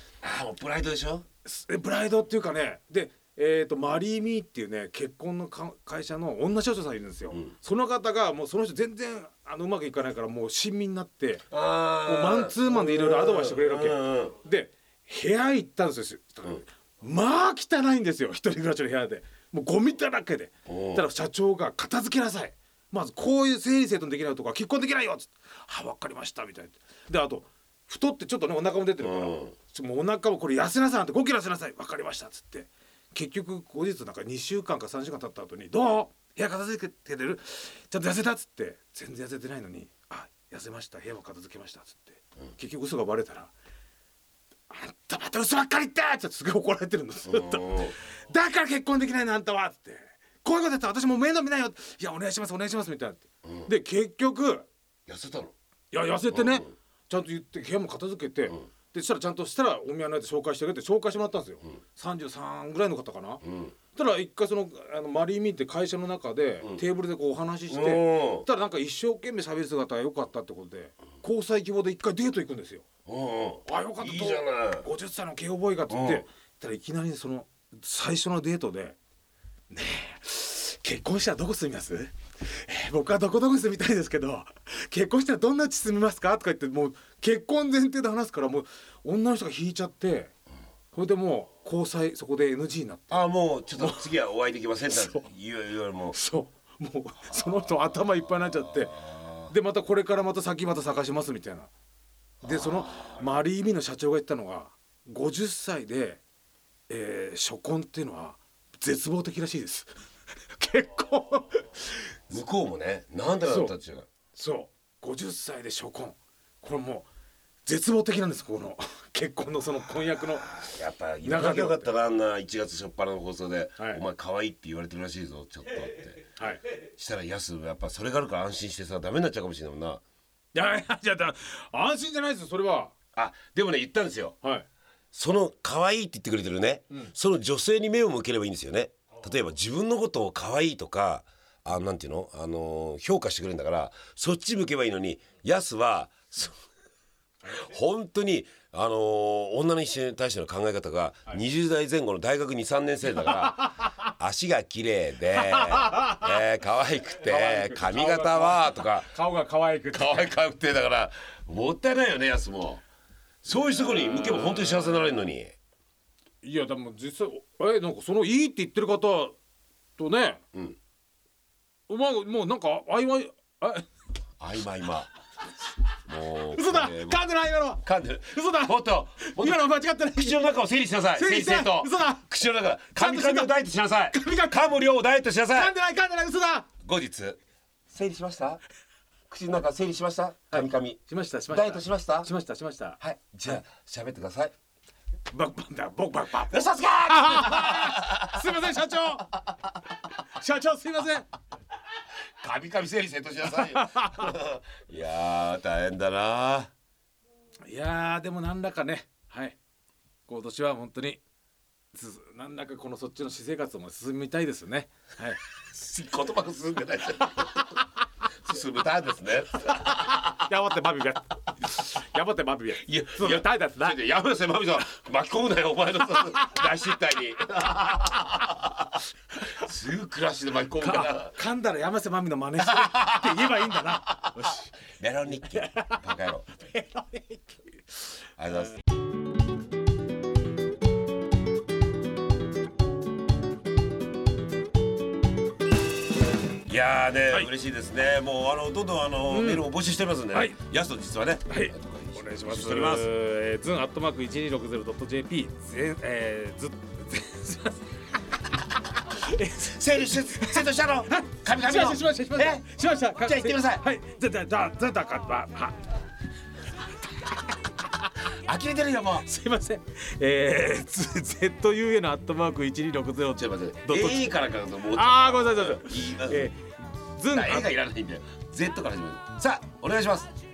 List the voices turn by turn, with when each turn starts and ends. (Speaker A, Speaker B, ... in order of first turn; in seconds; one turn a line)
Speaker A: 0.2-1.3
Speaker B: 1.4-11.5
Speaker A: 11.5-14.4
Speaker B: 12.0-43.5
Speaker A: 20.7-21.1
Speaker A: 29.0-29.6
Speaker B: 44.7-54.7
Speaker A: 47.3-48.0
Speaker A: 53.4-53.7
Speaker A: 55.1-55.5
Speaker B: 55.9-63.4
Speaker A: 56.3-56.7
Speaker A: 63.4-63.8
Speaker B: 63.9-72.8
Speaker A: 67.7-68.5
Speaker A: 73.1-74.9
Speaker B: 73.7-79.0
Speaker A: 75.9-76.2
Speaker B: 79.7-90.3
Speaker B: 90.9-94.1
Speaker A: 93.1-96.2
Speaker B: 94.9-95.2
Speaker B: 96.1-101.7
Speaker A: 97.3-99.5
Speaker A: 102.4-103.2
Speaker B: 102.4-106.2
Speaker B: 106.9-109.9
Speaker B: 110.5-112.2
Speaker A: 112.3-114.1
Speaker B: 113.4-113.7
Speaker B: 114.3-117.1
Speaker B: 117.7-120.5
Speaker A: 120.1-130.0
Speaker B: 121.2-121.9
Speaker B: 126.4-126.6
Speaker B: 130.5-132.9
Speaker A: 133.2-134.4
Speaker A: 135.1-146.6
Speaker A: 147.5-159.1
Speaker B: 153.2-153.9
Speaker B: 155.3-156.3
Speaker B: 157.2-160.3
Speaker A: 159.9-162.8
Speaker A: 163.4-165.6
Speaker B: 163.5-165.1
Speaker B: 166.4-169.4
Speaker B: 170.0-170.4
Speaker B: 171.9-173.9
Speaker A: 174.4-175.1
Speaker A: 176.1-185.8
Speaker B: 176.5-180.5
Speaker B: 181.1-182.3
Speaker B: 182.9-183.5
Speaker B: 184.1-184.6
Speaker B: 185.5-186.7
Speaker A: 186.8-187.4
Speaker A: 187.9-188.6
Speaker A: 189.3-192.3
Speaker B: 190.5-193.0
Speaker A: 193.0-194.5
Speaker B: 195.3-199.3
Speaker A: 196.5-198.6
Speaker B: 200.1-201.3
Speaker A: 202.4-206.7
Speaker B: 203.5-204.3
Speaker B: 207.7-209.6
Speaker B: 210.3-211.2
Speaker B: 211.9-215.4
Speaker A: 215.7-217.7
Speaker A: 218.4-220.4
Speaker B: 220.2-224.0
Speaker A: 222.7-229.0
Speaker A: 229.5-231.4
Speaker B: 230.8-234.8
Speaker A: 232.6-234.0
Speaker A: 234.9-236.5
Speaker B: 235.5-236.0
Speaker B: 236.6-237.4
Speaker A: 238.4-238.8
Speaker A: 246.7-253.1
Speaker B: 249.3-249.7
Speaker B: 251.5-258.0
Speaker B: 258.9-265.9
Speaker A: 259.6-263.9
Speaker A: 268.3-269.3
Speaker B: 269.2-274.4
Speaker A: 273.3-276.5
Speaker B: 274.9-277.7
Speaker A: 277.3-280.3